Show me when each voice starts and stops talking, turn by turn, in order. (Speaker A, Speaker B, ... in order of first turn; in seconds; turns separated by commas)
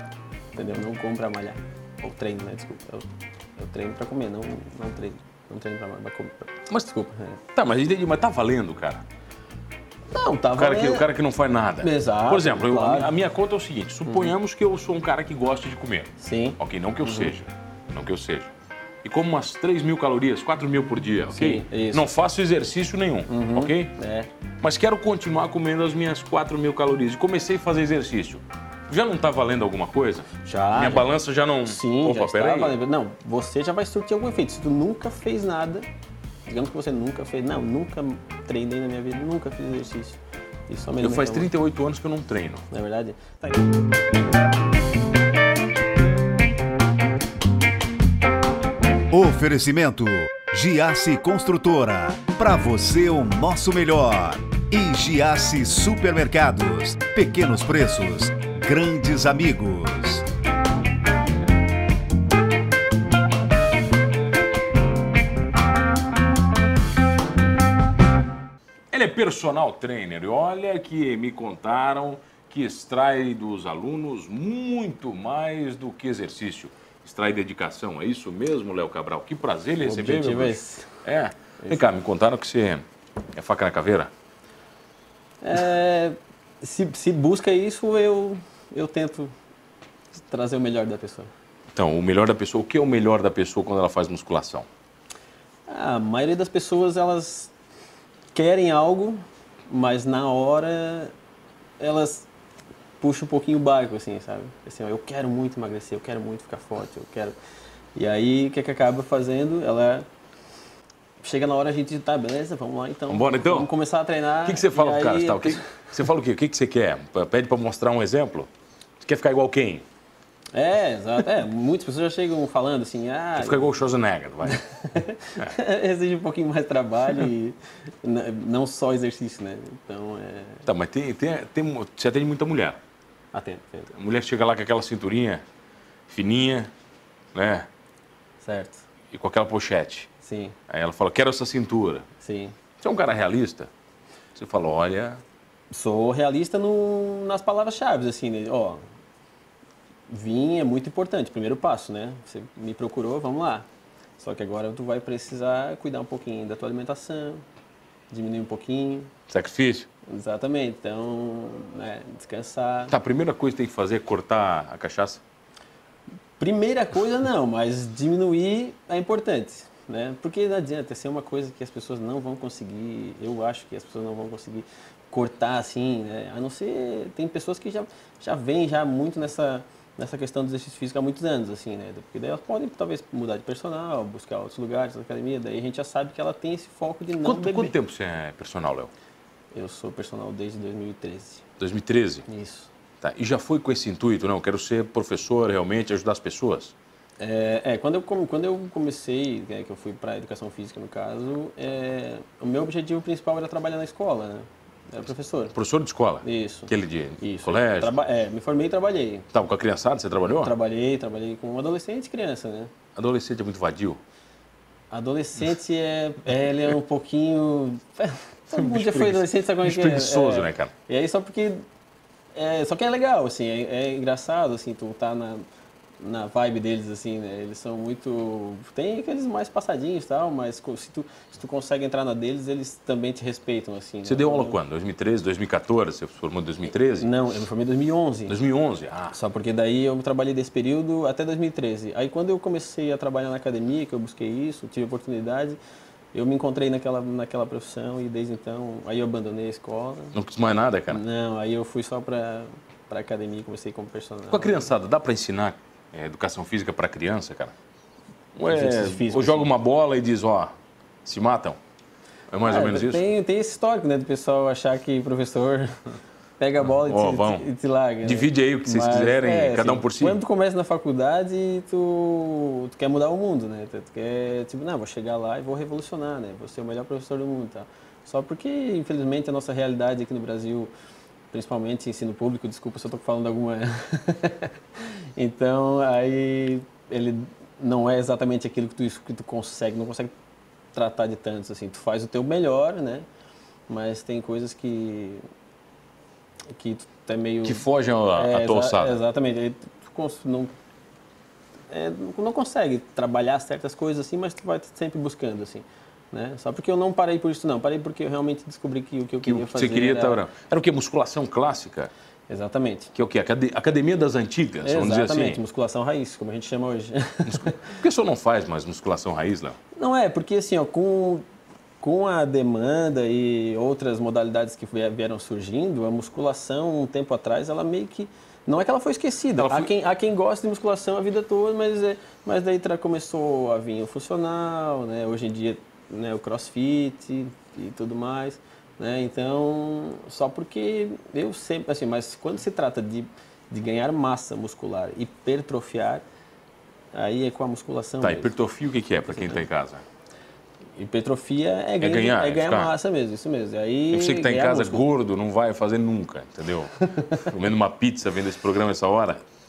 Speaker A: 0.6-3.1, Speaker A: 3.6-7.4, Speaker B: 6.7-9.0, Speaker A: 10.1-11.1, Speaker B: 10.6-18.5, Speaker A: 11.8-13.1, Speaker A: 14.1-14.3, Speaker A: 16.2-17.3, Speaker B: 19.0-23.9, Speaker A: 21.3-22.1, Speaker A: 23.3-24.3, Speaker B: 24.6-32.8, Speaker A: 30.5-31.1, Speaker A: 31.7-35.9, Speaker A: 36.5-41.5, Speaker B: 41.0-42.6, Speaker A: 42.7-43.7, Speaker C: 49.1-60.2, Speaker B: 68.9-84.1, Speaker A: 79.8-80.9, Speaker A: 85.4-89.3, Speaker A: 90.1-91.3, Speaker B: 91.7-94.7, Speaker A: 95.7-97.5, Speaker A: 98.3-101.1, Speaker A: 101.8-102.3, Speaker A: 103.0-107.4, Speaker A: 108.0-110.1, Speaker A: 111.2-115.7, Speaker B: 113.1-113.7, Speaker B: 114.5-118.5, Speaker B: 119.0-119.8, Speaker A: 120.5-123.7, Speaker B: 123.4-124.6, Speaker A: 124.5-130.7, Speaker B: 130.7-132.8, Speaker A: 133.3-133.9, Speaker B: 133.9-135.4, Speaker B: 136.1-136.7, Speaker B: 137.3-137.7, Speaker A: 138.4-138.8, Speaker B: 139.1-140.1, Speaker A: 140.2-140.6, Speaker B: 140.7-142.1, Speaker A: 142.2-142.6, Speaker B: 142.8-143.7, Speaker B: 144.3-145.2, Speaker A: 145.7-148.8, Speaker A: 150.1-153.7, Speaker A: 154.2-157.4, Speaker A: 158.1-159.1, Speaker B: 159.3-159.9, Speaker A: 160.1-162.9, Speaker B: 162.9-165.2, Speaker A: 166.4-187.7, Speaker B: 187.2-188.9, Speaker A: 189.5-191.4, Speaker B: 191.6-192.2, Speaker A: 192.3-192.7, Speaker B: 193.0-196.7, Speaker A: 197.2-205.6, Speaker B: 205.5-207.9, Speaker A: 206.2-209.3, Speaker B: 209.3-210.5, Speaker A: 210.3-212.7, Speaker B: 213.0-214.0, Speaker A: 214.9-221.7, Speaker B: 218.6-220.7, Speaker A: 222.3-225.4, Speaker A: 226.0-234.6, Speaker B: 234.1-237.1, Speaker A: 237.0-238.4, Speaker B: 238.3-239.2, Speaker A: 239.1-245.6, Speaker A: 246.1-250.2, Speaker B: 250.1-251.0, Speaker A: 250.9-254.7, Speaker B: 254.3-257.5, Speaker B: 258.4-260.5, Speaker A: 258.4-259.5, Speaker B: 261.1-261.6, Speaker B: 262.3-263.1, Speaker A: 262.4-265.8, Speaker A: 266.4-280.7, Speaker B: 266.6-267.5, Speaker B: 268.0-270.2, Speaker A: 281.3-290.1, Speaker A: 290.7-293.1, Speaker A: 293.7-295.2, Speaker A: 296.5-300.5, Speaker B: 297.4-299.0, Speaker A: 301.7-310.2, Speaker B: 309.2-311.9, Speaker A: 312.3-312.9, Speaker B: 312.9-315.4, Speaker A: 314.6-317.7, Speaker B: 317.2-319.6, Speaker A: 319.8-321.2, Speaker A: 321.8-346.1, Speaker B: 329.4-329.7, Speaker A: 346.9-348.3, Speaker B: 348.0-349.8, Speaker A: 349.1-349.4, Speaker A: 350.8-354.9, Speaker B: 351.8-352.7, Speaker B: 353.9-359.2